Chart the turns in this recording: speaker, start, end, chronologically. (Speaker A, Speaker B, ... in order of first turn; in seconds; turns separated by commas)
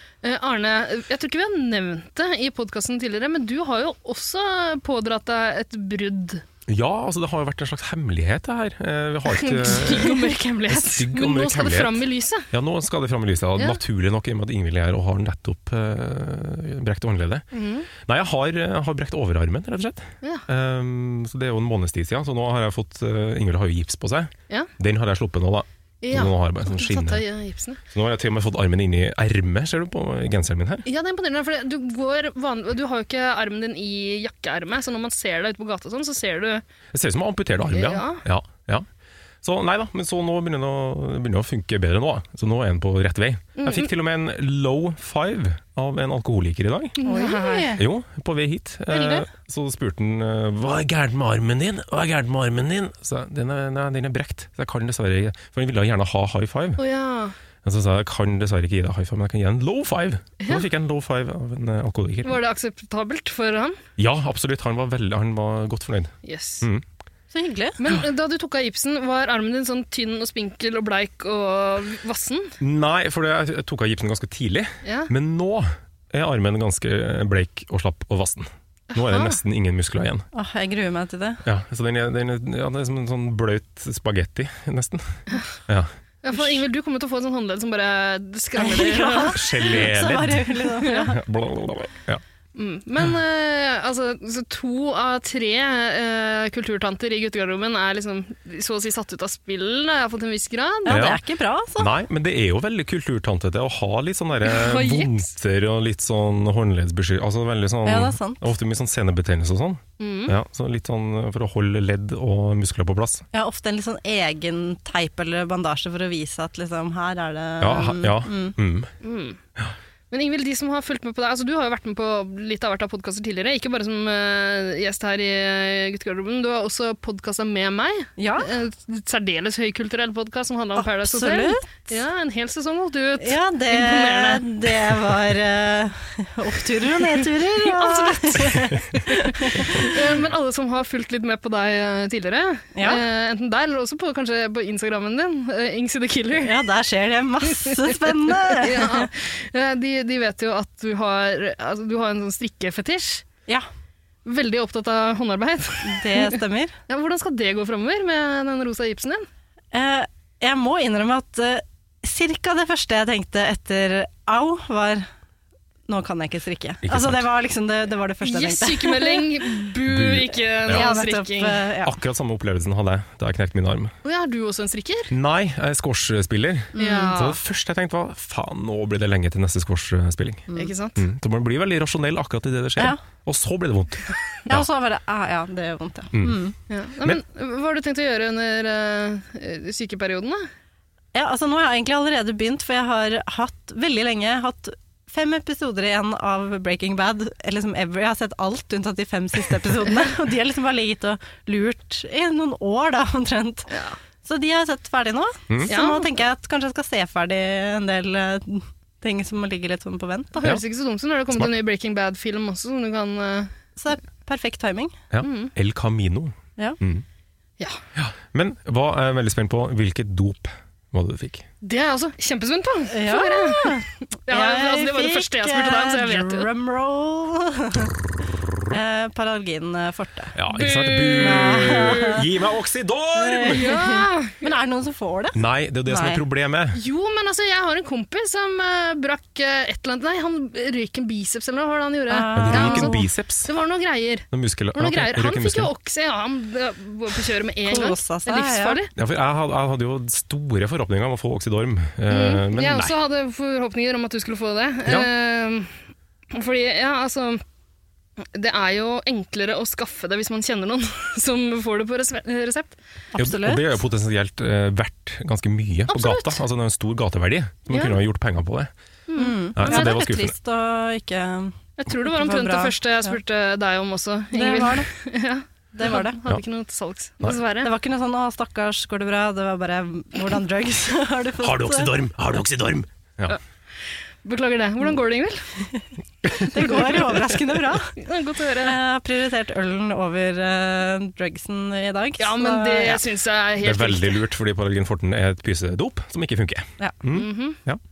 Speaker A: 0.2-6.4, Speaker B: 6.7-17.4, Speaker A: 9.3-12.5, Speaker A: 17.5-17.9, Speaker B: 18.0-27.2, Speaker A: 26.0-27.8, Speaker B: 27.9-30.8, Speaker A: 30.9-36.6, Speaker B: 36.9-38.9, Speaker A: 37.7-38.2, Speaker B: 39.4-47.0, Speaker A: 43.6-43.9, Speaker A: 47.0-47.8, Speaker C: 47.0-47.8, Speaker B: 47.7-56.8, Speaker A: 48.9-49.2, Speaker A: 56.8-57.4, Speaker B: 57.6-62.4, Speaker A: 60.4-60.6, Speaker A: 62.2-63.8, Speaker B: 64.0-66.8, Speaker A: 66.2-66.7, Speaker C: 67.3-67.8, Speaker A: 67.8-72.5, Speaker B: 72.6-80.2, Speaker A: 74.8-75.1, Speaker A: 78.9-79.4, Speaker C: 80.3-81.4, Speaker B: 81.4-85.9, Speaker A: 86.2-89.5, Speaker C: 88.5-91.2, Speaker B: 89.2-92.2, Speaker A: 92.5-101.0, Speaker C: 100.8-101.9, Speaker B: 100.9-101.2, Speaker B: 101.8-113.2, Speaker A: 104.4-105.2, Speaker C: 107.8-108.5, Speaker A: 110.0-110.4, Speaker C: 113.3-118.5, Speaker B: 117.6-118.9, Speaker A: 119.0-119.4, Speaker A: 120.1-134.7, Speaker C: 128.2-128.5, Speaker C: 130.8-131.9, Speaker C: 133.2-140.0, Speaker A: 137.0-146.6, Speaker C: 142.7-143.0, Speaker C: 146.4-149.1, Speaker A: 147.5-153.2, Speaker A: 154.2-156.4, Speaker C: 155.8-156.7, Speaker A: 156.9-159.3, Speaker C: 159.7-165.1, Speaker C: 165.9-169.5, Speaker B: 166.8-167.2, Speaker A: 168.2-171.7, Speaker B: 169.8-170.9, Speaker C: 170.7-171.9, Speaker B: 171.8-173.9, Speaker A: 174.0-175.1, Speaker B: 175.1-184.7, Speaker C: 176.7-177.2, Speaker A: 176.8-177.4, Speaker A: 180.6-181.0, Speaker C: 184.5-186.5, Speaker B: 186.1-186.4, Speaker A: 186.7-190.5, Speaker C: 191.1-210.4, Speaker A: 203.7-203.9, Speaker A: 205.7-206.1, Speaker A: 210.4-213.5, Speaker C: 213.8-214.9, Speaker B: 215.1-217.0, Speaker A: 215.2-215.5, Speaker B: 217.9-221.4, Speaker A: 221.6-226.5, Speaker C: 222.9-227.9, Speaker C: 228.7-230.3, Speaker B: 230.3-233.6, Speaker A: 230.5-231.9, Speaker C: 231.2-232.2, Speaker C: 233.2-236.2, Speaker A: 233.5-234.4, Speaker B: 235.3-236.8, Speaker A: 236.7-248.9, Speaker C: 242.1-243.1, Speaker B: 242.3-243.5, Speaker B: 244.3-245.7, Speaker C: 247.6-248.8, Speaker B: 248.9-252.9, Speaker A: 252.1-255.8, Speaker A: 256.3-257.4, Speaker A: 258.2-262.8, Speaker C: 263.1-263.8, Speaker B: 263.2-268.7, Speaker A: 265.9-266.4, Speaker A: 267.7-268.0, Speaker A: 269.1-270.0, Speaker C: 269.2-273.1, Speaker B: 269.6-270.3, Speaker A: 271.8-277.7, Speaker C: 274.3-274.9, Speaker C: 275.7-276.2, Speaker C: 277.6-281.9, Speaker B: 281.4-283.4, Speaker A: 284.2-285.4, Speaker C: 286.3-288.0, Speaker A: 286.8-287.0, Speaker A: 287.9-288.8, Speaker C: 288.6-293.0, Speaker A: 292.2-294.2, Speaker B: 293.6-297.8, Speaker A: 297.1-297.6